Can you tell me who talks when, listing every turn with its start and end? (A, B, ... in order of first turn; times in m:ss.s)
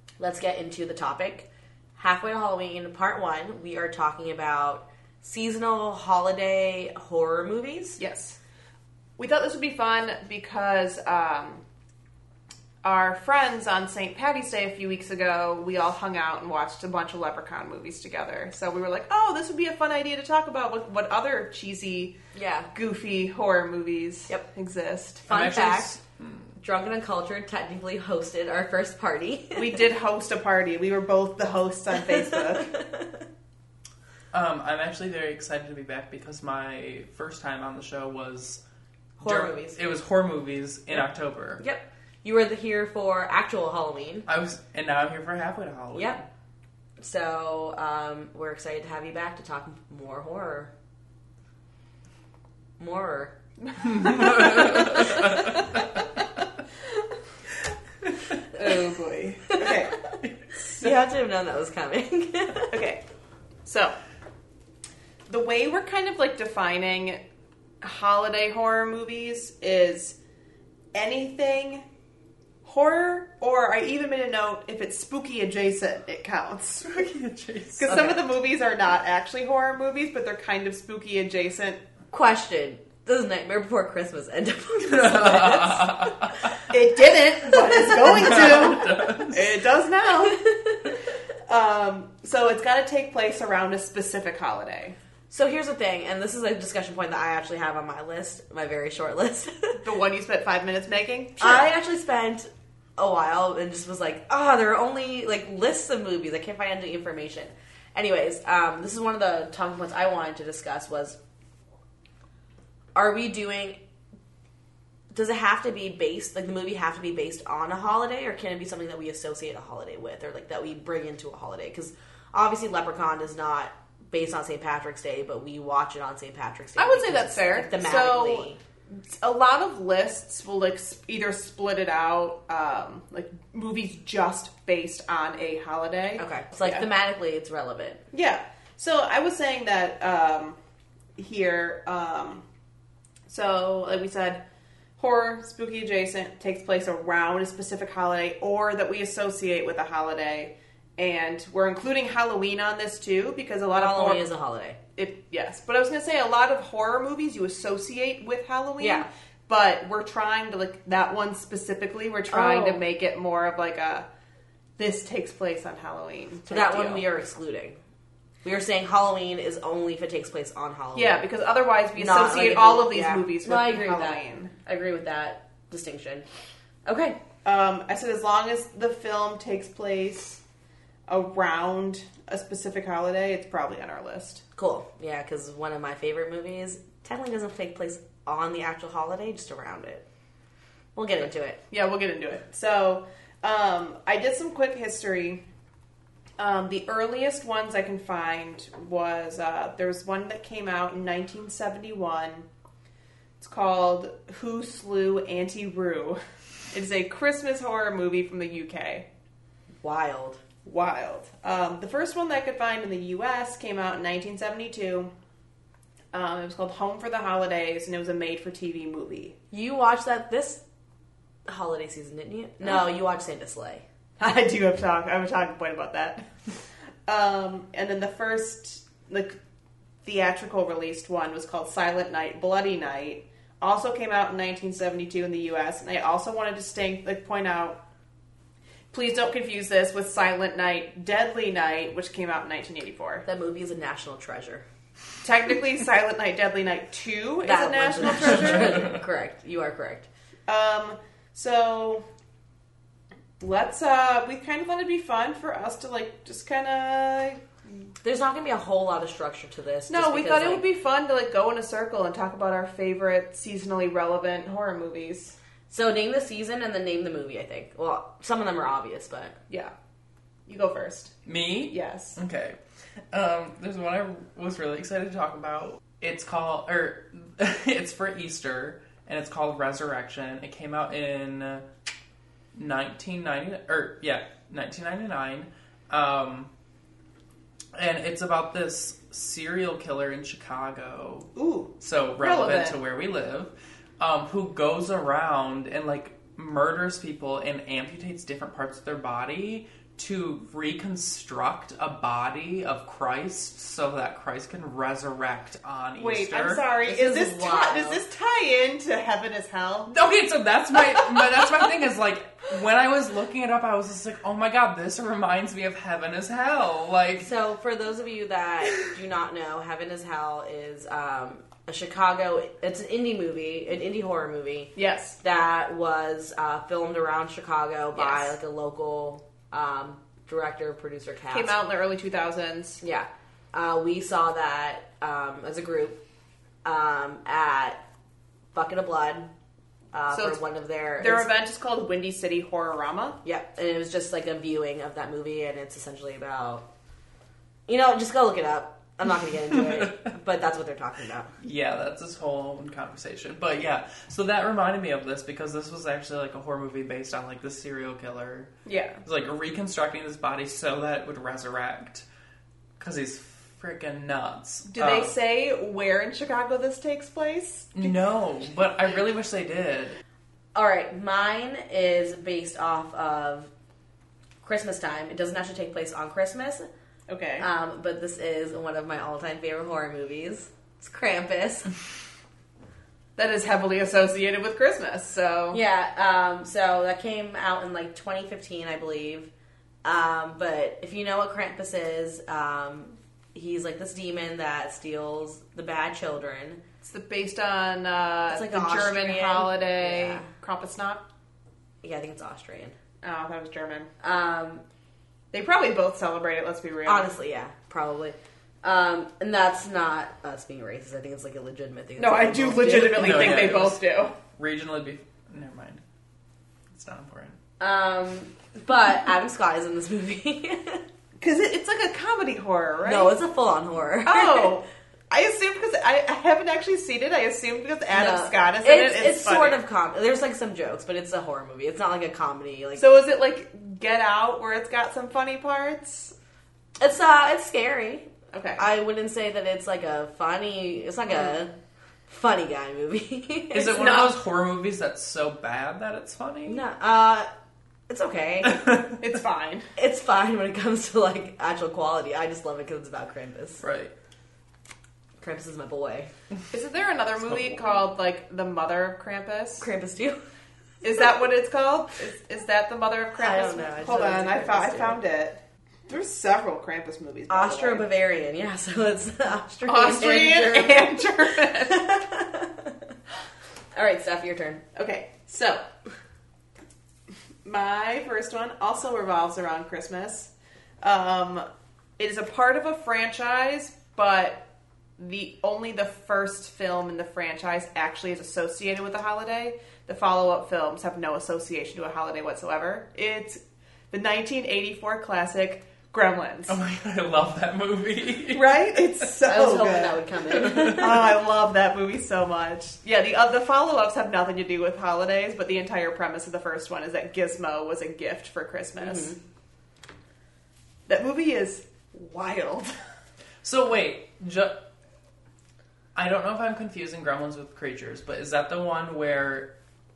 0:00.2-0:08.0 A
0:08.0-0:08.4 B
0:09.2-0:11.6 B
0:12.8-0:22.2 B
0:22.3-0:22.7 A
0:22.7-0:25.2 B
0:25.3-0:26.0 A
0:25.3-0:26.5 C
0:26.6-0:29.8 A
0:29.5-0:32.7 B
0:32.1-0:33.2 A
0:34.3-0:38.6 C
0:39.2-0:39.8 A
0:39.2-0:41.6 C
0:41.6-0:44.3 A
0:44.3-0:46.2 C
0:45.9-0:46.2 A
0:47.0-0:50.7 A
0:52.8-0:53.3 A
0:53.6-0:55.6 B
0:53.9-0:55.6 C
0:58.5-0:59.9 B
0:59.4-1:02.8 A
1:02.7-1:03.0 B
1:03.6-1:03.9 B
1:05.3-1:07.2 B
1:07.8-1:10.2 B
1:10.9-1:11.8 B
1:12.6-1:16.9 B
1:16.8-1:18.2 C
1:17.8-1:21.8 B
1:22.1-1:26.5 A
1:24.8-1:26.6 C
1:26.7-1:30.4 B
1:27.9-1:29.6 C
1:30.2-1:30.9 A
1:31.5-1:35.0 B
1:35.3-1:39.8 A
1:39.8-1:41.7 B
1:41.4-1:51.2 A
1:52.9-1:53.8 A
1:55.1-2:08.6 A
2:06.8-2:08.5 B
2:09.0-2:16.9 B
2:16.2-2:18.0 A
2:18.1-2:20.6 B
2:21.2-2:22.4 B
2:23.3-2:24.4 B
2:25.0-2:34.2 B
2:33.7-2:34.8 A
2:35.0-2:44.1 B
2:38.8-2:39.1 A
2:42.3-2:42.8 A
2:44.8-2:47.0 B
2:46.5-2:47.8 A
2:48.4-2:51.2 A
2:50.9-2:54.5 B
2:52.0-2:56.2 A
2:56.8-2:57.2 A
2:57.4-3:00.4 B
3:01.1-3:04.4 B
3:04.6-3:10.0 A
3:10.9-3:11.6 A
3:11.7-3:15.4 B
3:16.4-3:22.5 B
3:23.4-3:26.2 B
3:26.7-3:29.1 B
3:29.8-3:30.4 A
3:30.6-3:35.1 B
3:36.1-3:39.4 B
3:39.5-3:40.6 A
3:41.5-3:43.8 A
3:44.2-3:46.2 B
3:47.1-3:49.4 B
3:50.0-3:57.8 B
3:58.9-4:03.2 B
4:03.2-4:04.6 A
4:05.2-4:08.9 B
4:07.4-4:10.1 A
4:10.5-4:12.0 B
4:13.4-4:17.4 B
4:18.0-4:20.6 A
4:19.9-4:25.4 B
4:25.7-4:29.4 A
4:30.5-4:31.1 B
4:31.2-4:32.6 C
4:31.7-4:32.2 B
4:33.1-4:41.6 C
4:42.5-4:46.5 C
4:47.7-5:06.6 C
4:51.3-4:52.8 B
5:06.0-5:09.9 B
5:06.8-5:08.0 A
5:09.9-5:17.3 C
5:17.2-5:31.5 A
5:24.8-5:25.2 B
5:27.9-5:28.4 B
5:31.3-5:32.8 B
5:32.8-5:36.0 A
5:36.6-5:37.8 A
5:38.5-5:39.3 A
5:39.9-5:41.3 A
5:40.1-5:40.4 B
5:41.0-5:43.2 B
5:43.2-5:46.7 A
5:47.7-5:51.3 A
5:51.4-5:58.5 C
5:58.6-5:59.0 B
5:59.0-6:02.0 C
6:02.8-6:05.1 C
6:04.7-6:07.9 B
6:07.7-6:10.0 C
6:10.5-6:13.5 A
6:14.4-6:16.7 A
6:17.1-6:17.4 B
6:17.4-6:21.7 A
6:23.2-6:25.6 B
6:25.5-6:29.3 A
6:29.8-6:36.6 A
6:36.8-6:41.0 B
6:38.3-6:40.3 A
6:41.8-6:42.8 A
6:43.0-6:43.9 B
6:44.0-6:44.6 A
6:45.3-6:47.1 B
6:46.8-6:53.5 A
6:52.0-6:54.1 B
6:52.8-6:55.8 C
6:56.7-6:57.4 C
6:57.6-7:00.8 A
7:01.2-7:03.1 B
7:02.8-7:04.6 A
7:04.0-7:09.6 B
7:07.9-7:12.8 A
7:12.8-7:16.1 B
7:16.8-7:21.5 A
7:18.3-7:18.6 B
7:22.1-7:24.0 A
7:23.5-7:26.6 C
7:23.8-7:24.1 B
7:26.5-7:27.3 A
7:27.9-7:28.6 A
7:28.4-7:29.0 C
7:29.0-7:29.7 B
7:29.8-7:33.6 A
7:33.6-7:33.9 C
7:35.2-7:36.1 A
7:36.5-7:39.7 B
7:37.3-7:37.6 C
7:39.6-7:40.2 A
7:40.8-7:47.9 B
7:43.2-7:45.0 A
7:47.3-7:51.0 A
7:49.6-7:51.8 B
7:51.6-7:52.8 A
7:53.7-7:54.6 A
7:54.7-7:55.6 B
7:57.4-8:01.4 B
8:02.0-8:16.6 B
8:16.5-8:19.1 C
8:18.3-8:29.1 B
8:19.2-8:21.0 A
8:20.3-8:20.9 C
8:28.8-8:29.2 A
8:30.9-8:32.8 B
8:33.4-8:34.6 C
8:35.9-8:39.5 C